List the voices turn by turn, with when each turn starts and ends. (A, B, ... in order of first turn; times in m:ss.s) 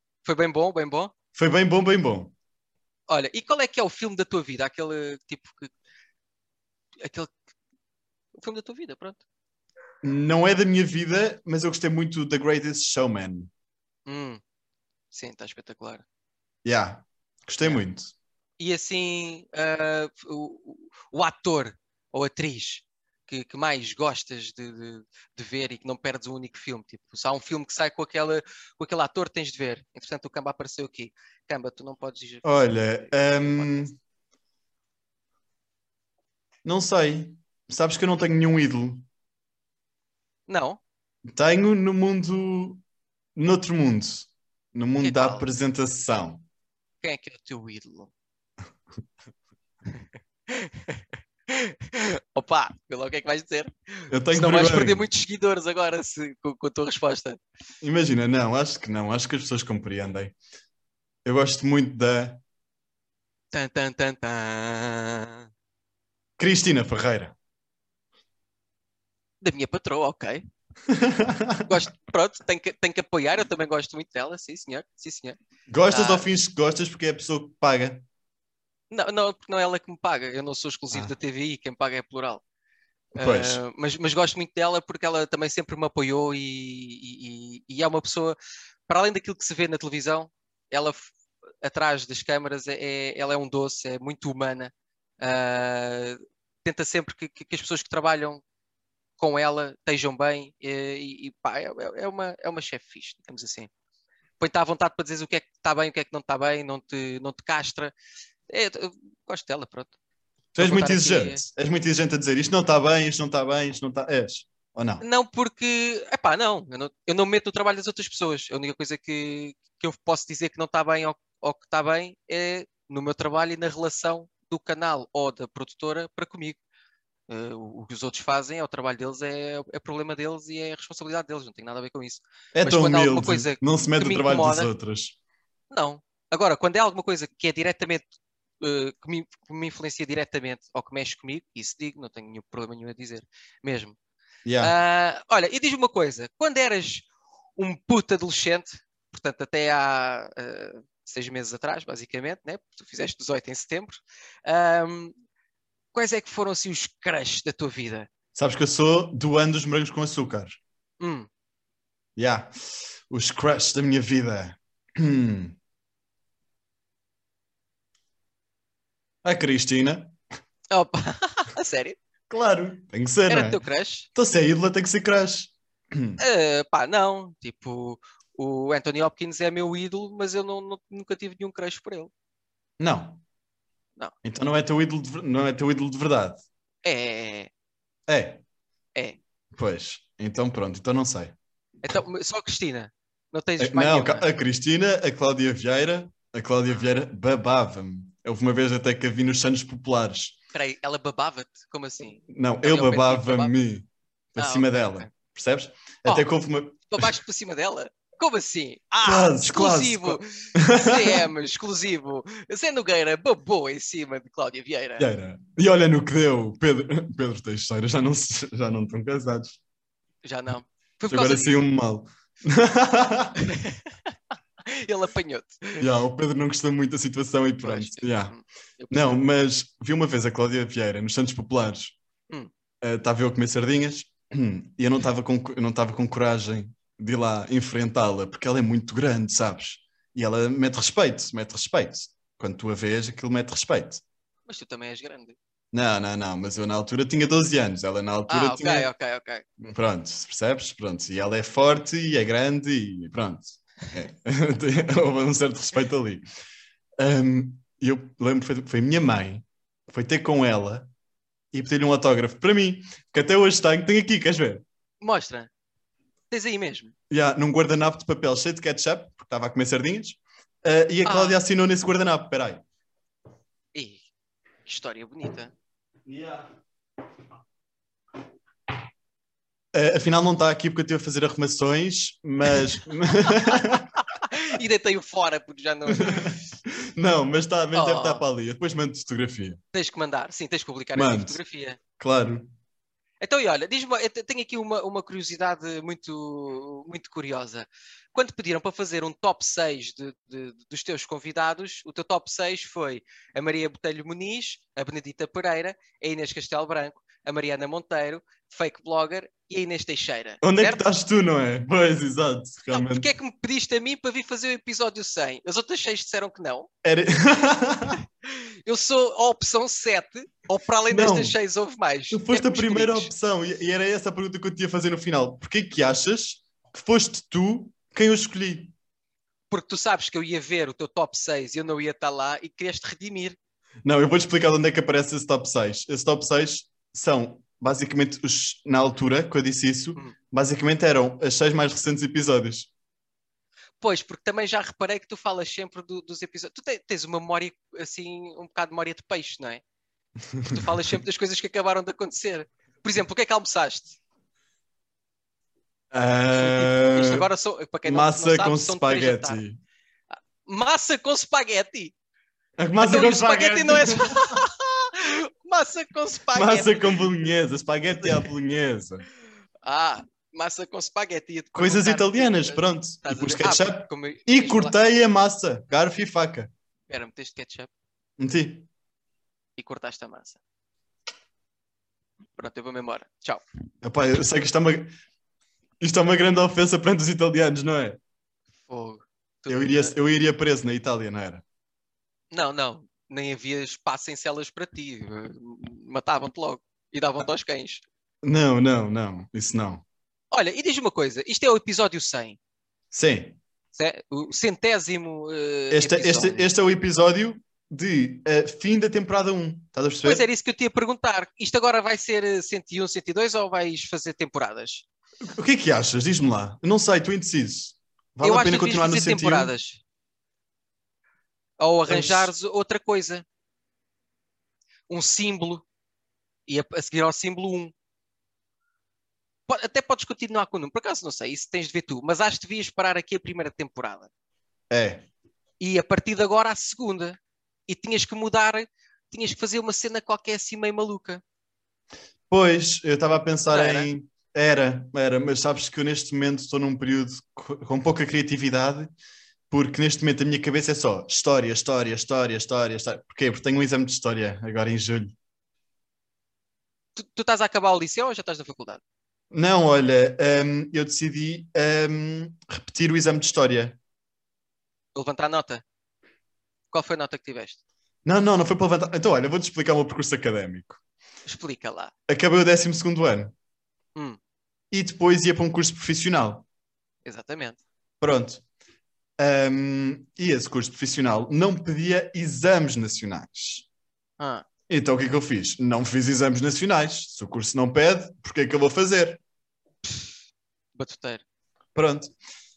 0:00.2-0:01.1 A
0:01.4-0:02.3 B
0:03.1-0:05.7 A
0:07.0-0:07.3 A
0:08.4-0:09.2 A
0:10.0-0:13.5 B
0:14.1-0:14.4 A
0:15.1-0:16.0 A
0:16.6-0:18.1 B
0:18.6-0:33.9 A
0:32.4-0:34.0 B
0:36.6-0:39.1 B
0:40.5-0:40.8 A
0:41.3-0:42.8 B
0:43.4-0:46.4 B
0:45.0-0:45.4 A
0:47.0-0:48.1 A
0:49.9-0:53.7 A
0:54.1-0:55.1 B
0:54.3-0:57.4 A
0:57.8-1:00.3 B
1:01.2-1:02.4 B
1:03.5-1:05.5 A
1:06.4-1:07.4 B
1:09.4-1:10.5 A
1:10.9-1:11.7 B
1:11.7-1:15.4 A
1:15.7-1:18.0 B
1:15.9-1:16.3 A
1:18.9-1:22.4 A
1:23.2-1:28.4 A
1:23.2-1:23.6 B
1:28.9-1:38.4 A
1:39.2-1:43.7 A
1:44.4-1:47.9 A
1:48.5-1:49.9 A
1:50.5-1:55.0 B
1:50.6-1:51.4 A
1:55.0-2:06.6 A
2:07.3-2:14.7 A
2:12.6-2:15.2 B
2:15.7-2:18.1 A
2:18.6-2:24.0 A
2:24.4-2:24.7 B
2:24.6-2:27.1 A
2:27.6-2:35.2 A
2:35.9-2:38.1 A
2:38.4-2:40.6 B
2:41.0-2:41.3 A
2:42.2-2:45.6 B
2:49.2-2:50.2 B
2:50.7-2:52.0 A
2:52.3-2:53.6 B
2:53.3-2:54.1 A
2:54.1-2:56.2 B
2:56.2-3:02.1 A
3:02.8-3:03.2 B
3:04.2-3:06.4 B
3:06.8-3:07.5 A
3:08.1-3:08.4 B
3:09.5-3:11.4 B
3:11.8-3:14.3 A
3:13.6-3:20.4 B
3:20.5-3:23.5 A
3:22.3-3:27.1 B
3:24.4-3:25.1 A
3:26.9-3:35.1 A
3:29.0-3:31.3 B
3:35.0-3:39.6 B
3:40.2-3:41.5 A
3:41.1-3:43.4 B
3:43.4-3:44.1 A
3:44.7-3:45.8 A
3:45.8-3:48.3 B
3:47.6-3:49.2 A
3:48.9-3:52.0 B
3:52.8-4:04.0 B
4:04.5-4:05.4 A
4:05.7-4:08.9 B
4:08.3-4:09.4 A
4:09.6-4:16.2 B
4:17.0-4:20.9 B
4:21.5-4:24.6 B
4:25.0-4:25.5 A
4:26.3-4:26.9 A
4:27.1-4:32.6 B
4:31.0-4:31.4 A
4:33.7-4:34.1 A
4:34.6-4:35.5 A
4:36.1-4:36.5 B
4:39.7-4:43.9 B
4:43.3-4:46.4 A
4:45.9-4:49.6 B
4:47.7-4:48.2 A
4:49.7-4:51.8 A
4:51.0-4:51.4 B
4:52.0-4:52.5 B
4:53.2-5:10.9 A
5:10.4-5:13.1 B
5:12.7-5:16.7 A
5:16.8-5:18.0 B
5:18.2-5:23.1 A
5:20.9-5:21.4 B
5:22.1-5:28.7 B
5:29.5-5:33.4 A
5:33.8-5:42.7 B
5:43.8-5:49.6 A
5:50.3-5:50.6 B
5:50.5-5:54.0 A
5:55.9-5:57.3 B
5:56.3-5:59.4 A
5:57.8-5:59.6 B
6:00.4-6:01.9 A
6:02.6-6:04.4 B
6:02.8-6:07.1 A
6:06.3-6:09.1 B
6:08.0-6:08.3 A
6:09.6-6:14.8 A
6:11.6-6:16.5 B
6:16.9-6:17.7 A
6:18.2-6:18.7 B
6:19.6-6:20.4 A
6:22.4-6:23.4 A
6:23.8-6:25.0 B
6:25.8-6:28.0 B
6:28.7-6:30.0 A
6:29.5-6:31.4 B
6:32.3-6:37.8 A
6:38.2-6:39.8 B
6:40.3-6:42.4 A
6:42.9-6:43.4 B
6:43.8-6:46.5 A
6:45.7-6:50.2 B
6:50.0-6:54.8 A
6:55.4-6:59.5 B
6:58.2-6:59.8 A
7:01.6-7:03.2 A
7:01.9-7:02.3 B
7:04.9-7:05.6 A
7:06.5-7:07.7 A
7:09.5-7:14.1 A
7:14.7-7:15.0 B
7:15.6-7:21.2 A
7:22.3-7:28.9 B
7:23.5-7:23.9 A
7:29.5-7:35.1 B
7:37.0-7:38.8 A
7:39.3-7:43.8 B
7:44.9-7:45.6 A
7:46.7-7:47.6 A
7:48.0-7:50.8 B
7:51.3-7:51.9 A
7:52.1-7:53.3 B
7:54.7-7:56.4 B
7:57.0-7:57.6 A
7:58.0-7:58.4 B
7:59.2-8:03.7 B
8:04.2-8:04.5 A
8:04.7-8:09.2 B
8:09.8-8:10.1 A
8:10.8-8:11.2 A
8:11.8-8:12.1 B